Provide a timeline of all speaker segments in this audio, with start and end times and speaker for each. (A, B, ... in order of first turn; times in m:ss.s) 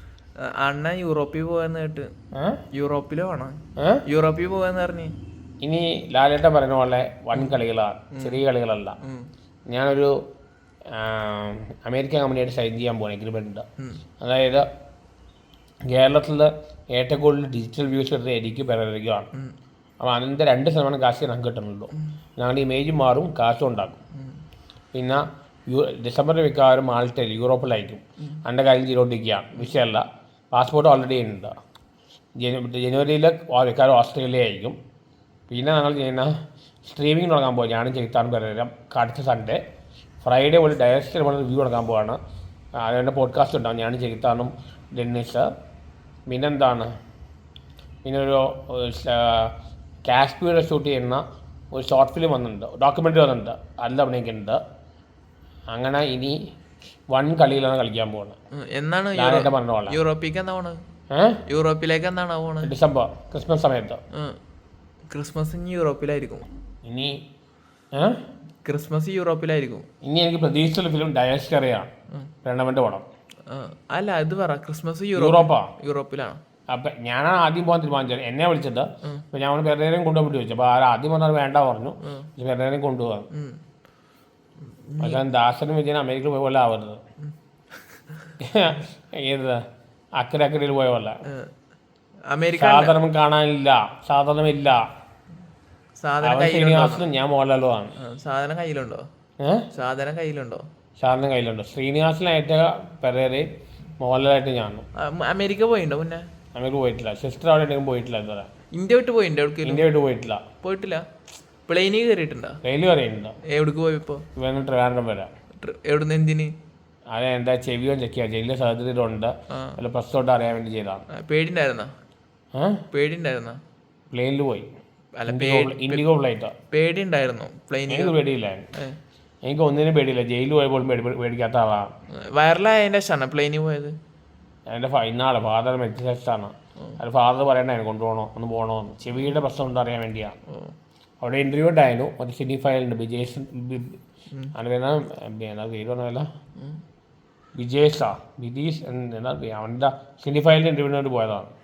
0:00.4-0:02.1 A
0:02.3-0:02.6 B
0:02.7-0:05.1 A
0:03.8-0:04.0 B
0:05.6-0:09.0 B
0:08.1-0:08.4 A
0:09.0-0:09.3 A
0:09.7-0:10.1 B
0:10.9-0:13.6 B
0:14.2-0:14.6 B
0:15.9-0:19.3 B
0:20.0-0:24.0 B
0:24.9-0:31.5 B
0:32.4-0:34.8 B
0:35.5-0:39.6 B
0:40.2-0:42.2 B
0:42.8-0:45.5 B
0:46.3-0:46.9 B
0:48.0-0:49.5 B
0:50.0-0:54.6 B
0:55.7-0:56.4 B
0:57.1-0:58.4 B
0:58.5-1:00.8 A
0:59.2-1:00.0 B
1:01.1-1:01.4 B
1:01.5-1:02.7 A
1:02.6-1:04.0 B
1:04.1-1:04.4 A
1:05.1-1:06.4 A
1:06.8-1:07.2 B
1:07.9-1:08.2 B
1:08.6-1:09.9 A
1:10.0-1:11.9 B
1:12.4-1:13.0 B
1:13.5-1:16.4 A
1:15.2-1:15.7 B
1:16.7-1:23.3 B
1:23.3-1:23.6 A
1:24.8-1:25.2 A
1:25.0-1:27.0 B
1:28.4-1:29.6 B
1:30.2-1:31.2 B
1:31.3-1:31.5 A
1:32.3-1:33.0 A
1:32.6-1:34.8 B
1:36.0-1:37.1 A
1:36.2-1:37.9 B
1:38.0-1:39.0 A
1:39.4-1:39.7 B
1:39.7-1:40.7 A
1:41.0-1:43.5 B
1:44.0-1:44.8 B
1:44.9-1:46.3 A
1:46.5-1:48.5 B
1:48.7-1:49.8 A
1:49.6-1:50.4 B
1:50.6-1:51.0 A
1:51.7-1:52.6 A
1:52.6-1:53.4 B
1:53.4-1:54.2 A
1:54.3-1:55.3 B
1:55.6-1:56.5 A
1:57.1-2:01.0 B
1:59.5-1:59.8 A
2:01.1-2:01.9 A
2:02.5-2:02.8 B
2:02.9-2:03.6 A
2:04.1-2:04.7 B
2:05.2-2:06.0 A
2:05.3-2:06.5 B
2:06.7-2:08.2 A
2:07.9-2:08.6 B
2:09.4-2:11.9 B
2:12.1-2:14.0 A
2:14.7-2:20.4 B
2:20.5-2:20.7 A
2:21.2-2:24.0 B
2:24.5-2:26.3 B
2:27.6-2:31.5 B